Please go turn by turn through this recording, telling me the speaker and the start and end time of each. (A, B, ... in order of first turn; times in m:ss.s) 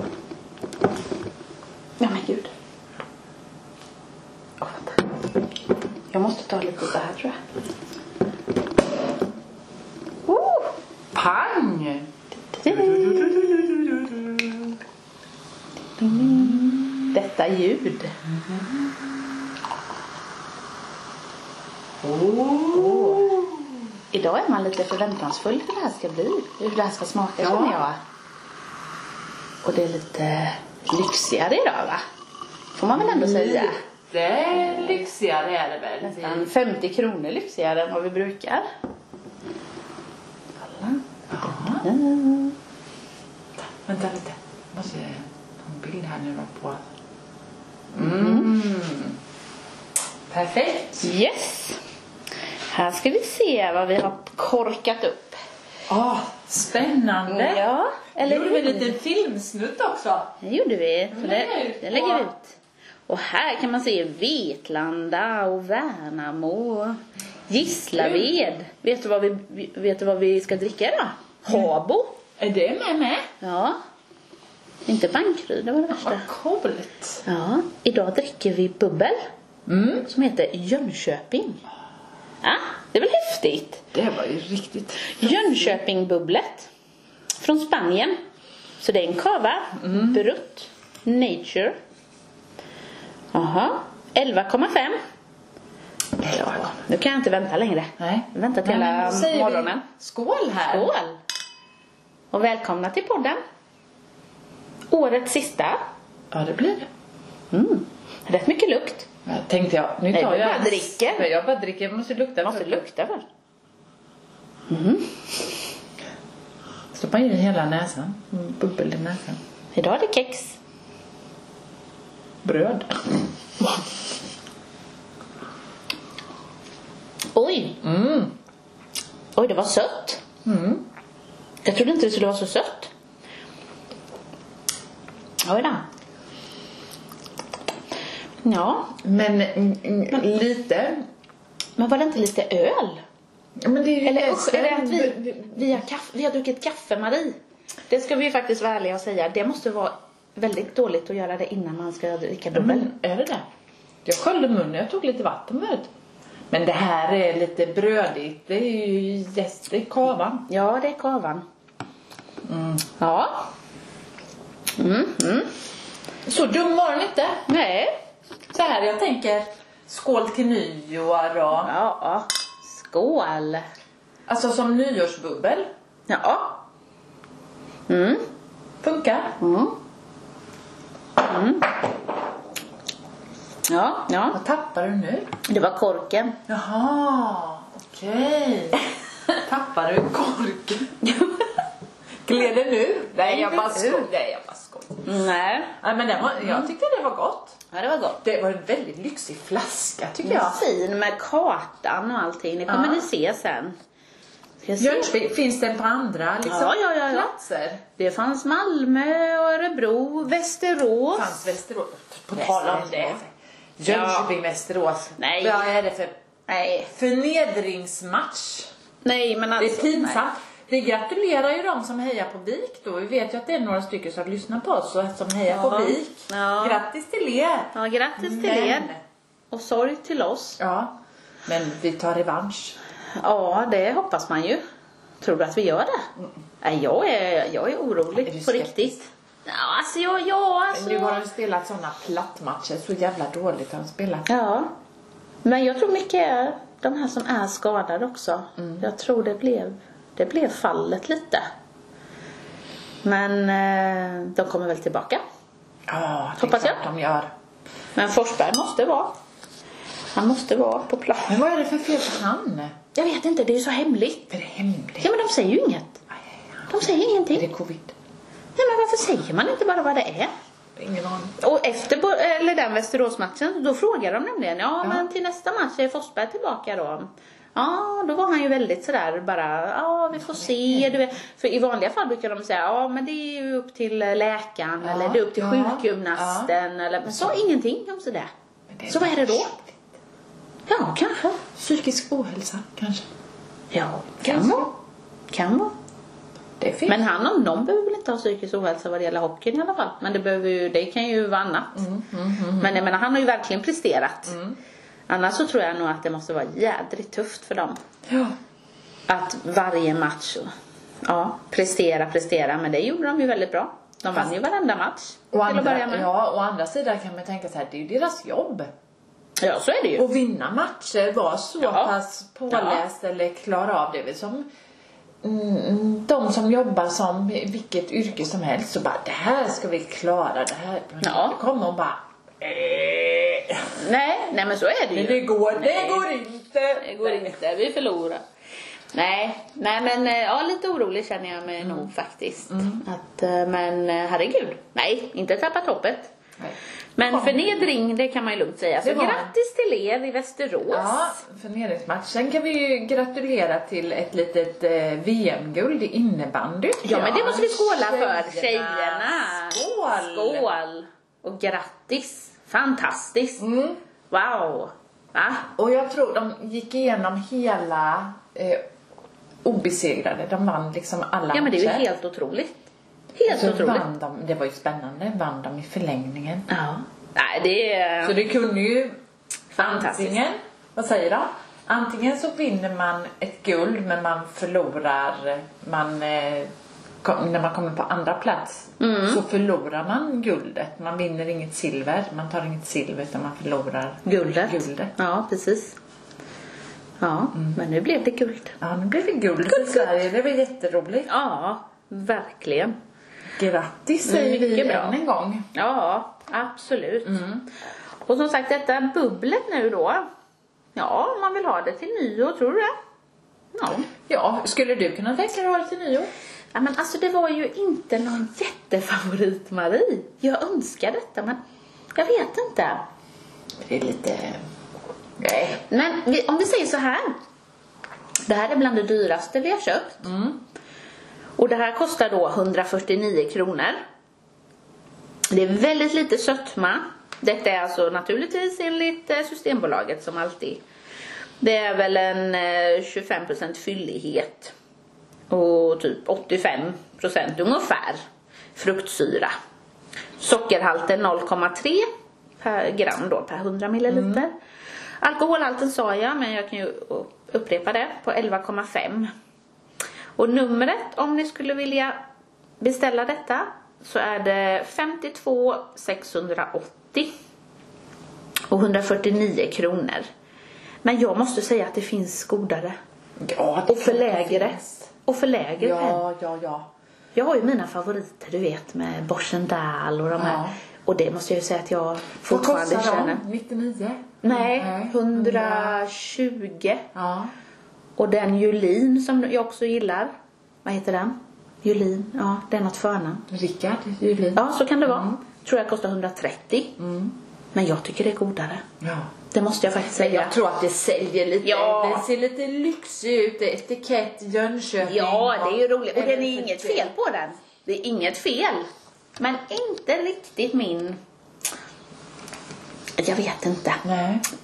0:02.0-0:02.5 A
0:04.6-0:05.0 A
0:06.1-0:07.4 A
0:10.3-0:10.7 A
0:11.1-0:12.1 B
0:12.5-0:13.7 A
0:12.7-0:14.7 B
0:16.0-0:18.2 A
0:16.1-0:17.1 B
0:18.4-0:18.7 B
0:22.0-0:23.7 B
0:22.7-0:23.3 A
0:24.1-0:28.0 A
0:27.4-0:27.8 B
0:29.6-0:32.0 A
0:32.8-0:33.8 A
0:32.9-0:36.5 B
0:36.0-0:38.6 A
0:40.6-0:42.6 A
0:41.3-0:41.9 B
0:43.6-0:46.9 B
0:47.9-0:49.2 B
0:48.0-0:48.5 A
0:50.3-0:51.1 B
0:51.0-0:51.8 A
0:52.7-0:55.4 A
0:55.9-0:57.6 B
0:57.3-0:59.0 A
0:58.2-1:00.3 B
1:00.4-1:02.5 A
1:01.1-1:02.3 B
1:03.1-1:12.2 A
1:07.9-1:08.3 B
1:12.4-1:13.3 B
1:13.4-1:13.8 A
1:14.8-1:16.2 A
1:15.9-1:17.2 B
1:17.2-1:19.2 A
1:19.7-1:20.0 B
1:20.0-1:21.6 A
1:22.4-1:23.8 A
1:23.9-1:25.8 B
1:25.1-1:26.7 A
1:27.4-1:28.2 A
1:28.8-1:31.8 A
1:29.8-1:30.2 B
1:33.3-1:35.0 A
1:36.2-1:36.6 B
1:36.2-1:39.8 A
1:38.0-1:40.9 B
1:40.7-1:41.2 A
1:42.3-1:43.4 A
1:44.9-1:45.8 A
1:46.3-1:46.9 B
1:47.5-1:49.1 A
1:49.2-1:52.8 B
1:50.1-1:51.3 A
1:52.4-1:53.2 A
1:54.7-1:55.5 A
1:56.9-1:59.4 B
1:59.7-2:00.6 A
2:02.4-2:03.8 B
2:07.3-2:07.8 A
2:07.8-2:08.3 B
2:09.4-2:10.2 A
2:10.4-2:10.8 B
2:11.6-2:12.9 A
2:15.4-2:15.8 A
2:18.4-2:19.0 A
2:19.0-2:21.0 B
2:21.8-2:23.0 A
2:23.6-2:25.8 B
2:24.0-2:27.4 A
2:27.9-2:32.9 A
2:32.5-2:33.4 B
2:34.0-2:35.9 B
2:36.5-2:40.5 B
2:40.5-2:41.4 A
2:42.4-2:42.8 B
2:43.0-2:43.5 A
2:44.8-2:45.5 A
2:46.2-2:47.4 B
2:47.5-2:48.0 A
2:48.5-2:51.7 B
2:51.6-2:53.6 A
2:54.3-2:55.7 B
2:56.1-2:56.6 A
2:57.9-2:58.2 A
2:58.8-2:59.4 B
2:59.4-2:59.8 A
3:01.2-3:01.8 A
3:03.7-3:04.4 A
3:04.3-3:05.3 B
3:05.5-3:06.4 A
3:06.5-3:11.1 B
3:11.0-3:11.4 A
3:12.2-3:15.2 B
3:13.2-3:14.1 A
3:15.0-3:15.8 A
3:15.8-3:17.6 B
3:17.7-3:18.2 A
3:18.2-3:20.6 B
3:20.2-3:23.8 A
3:22.7-3:23.0 B
3:24.6-3:25.1 A
3:24.8-3:27.8 B
3:26.4-3:27.3 A
3:28.0-3:31.4 A
3:31.1-3:36.1 B
3:32.3-3:33.2 A
3:33.8-3:34.3 A
3:35.2-3:35.7 A
3:36.5-3:36.9 A
3:36.9-3:38.7 B
3:39.0-3:40.2 A
3:39.6-3:49.0 B
3:45.5-3:46.8 A
3:47.7-3:48.9 A
3:49.5-3:50.6 A
3:50.6-3:50.9 B
3:51.4-3:52.8 B
3:53.2-3:54.6 A
3:55.2-3:56.1 A
3:56.6-4:01.2 A
3:58.2-3:59.0 B
4:00.7-4:04.3 B
4:04.3-4:04.8 A
4:05.4-4:11.5 A
4:08.6-4:08.8 B
4:13.0-4:15.2 A
4:15.9-4:17.3 B
4:16.4-4:16.8 A
4:18.0-4:19.2 A
4:20.1-4:21.4 A
4:21.3-4:22.8 B
4:22.9-4:24.3 A
4:24.3-4:25.1 B
4:25.0-4:26.0 A
4:26.6-4:27.9 B
4:26.7-4:27.5 A
4:28.6-4:30.3 A
4:30.8-4:31.3 B
4:31.4-4:48.3 A
4:40.2-4:40.9 B
4:44.8-4:46.5 B
4:47.0-4:47.4 B
4:48.7-4:49.8 B
4:48.9-4:49.5 A
4:50.7-4:51.4 A
4:51.5-4:53.0 B
4:53.7-4:54.7 A
4:54.2-4:54.7 B
4:55.3-4:55.7 A
4:56.6-4:57.0 B
4:56.9-5:01.9 A
5:01.7-5:02.8 B
5:02.6-5:04.4 A
5:04.3-5:04.6 B
5:05.1-5:07.8 A
5:08.1-5:08.4 B
5:09.1-5:10.5 A
5:11.0-5:16.1 A
5:15.3-5:18.7 B
5:19.4-5:20.0 A
5:20.0-5:24.5 B
5:21.6-5:21.9 A
5:22.5-5:22.8 A
5:25.2-5:33.7 B
5:31.0-5:31.4 A
5:33.8-5:36.0 A
5:34.9-5:37.3 B
5:36.8-5:38.2 A
5:38.9-5:46.1 A
5:41.6-5:41.9 B
5:42.5-5:42.8 B
5:47.0-5:51.1 A
5:47.1-5:47.6 B
5:48.8-5:49.3 B
5:50.7-6:00.5 B
5:56.8-6:03.4 A
6:03.4-6:03.8 B
6:04.1-6:05.5 A
6:05.6-6:08.6 B
6:09.4-6:11.9 B
6:11.3-6:13.8 A
6:13.3-6:16.5 B
6:16.5-6:18.2 A
6:18.0-6:19.0 B
6:19.5-6:20.2 A
6:19.6-6:26.5 B
6:27.0-6:34.9 B
6:28.8-6:29.2 A
6:34.0-6:35.8 A
6:37.0-6:38.6 A
6:38.6-6:41.1 B
6:39.5-6:39.9 A
6:41.1-6:42.7 A
6:43.4-6:45.5 B
6:44.0-6:45.0 A
6:45.5-6:47.3 A
6:47.0-6:47.4 B
6:48.0-6:50.0 A
6:50.7-6:52.7 A
6:53.5-6:53.9 A
6:54.1-6:56.1 B
6:56.5-7:01.4 A
7:01.9-7:02.8 A
7:03.6-7:04.4 B
7:05.2-7:05.6 B
7:05.7-7:07.2 A
7:08.3-7:10.1 A
7:10.0-7:10.4 B
7:11.4-7:13.8 A
7:15.3-7:20.6 A
7:21.4-7:24.5 A
7:25.3-7:28.0 A
7:28.6-7:29.3 A
7:30.2-7:31.9 A
7:32.4-7:34.3 A
7:33.9-7:34.2 B
7:35.0-7:39.1 A
7:40.2-7:42.0 A
7:42.6-7:47.1 A
7:48.5-7:50.1 A
7:50.8-7:52.8 A
7:53.2-7:54.9 B
7:53.7-7:56.0 A
7:55.6-7:56.7 B
7:57.1-8:03.2 A
8:00.2-8:00.6 B
8:02.3-8:05.8 B
8:04.2-8:06.9 A
8:06.9-8:07.3 B
8:08.0-8:10.1 A
8:10.6-8:13.2 A
8:13.3-8:15.1 B
8:14.4-8:16.8 A
8:16.8-8:17.2 B
8:17.5-8:18.6 A
8:18.8-8:19.1 B
8:19.3-8:20.3 A
8:19.8-8:26.9 B
8:21.4-8:22.0 A
8:24.8-8:28.7 A
8:29.2-8:31.0 A
8:33.0-8:33.8 A
8:33.8-8:34.2 B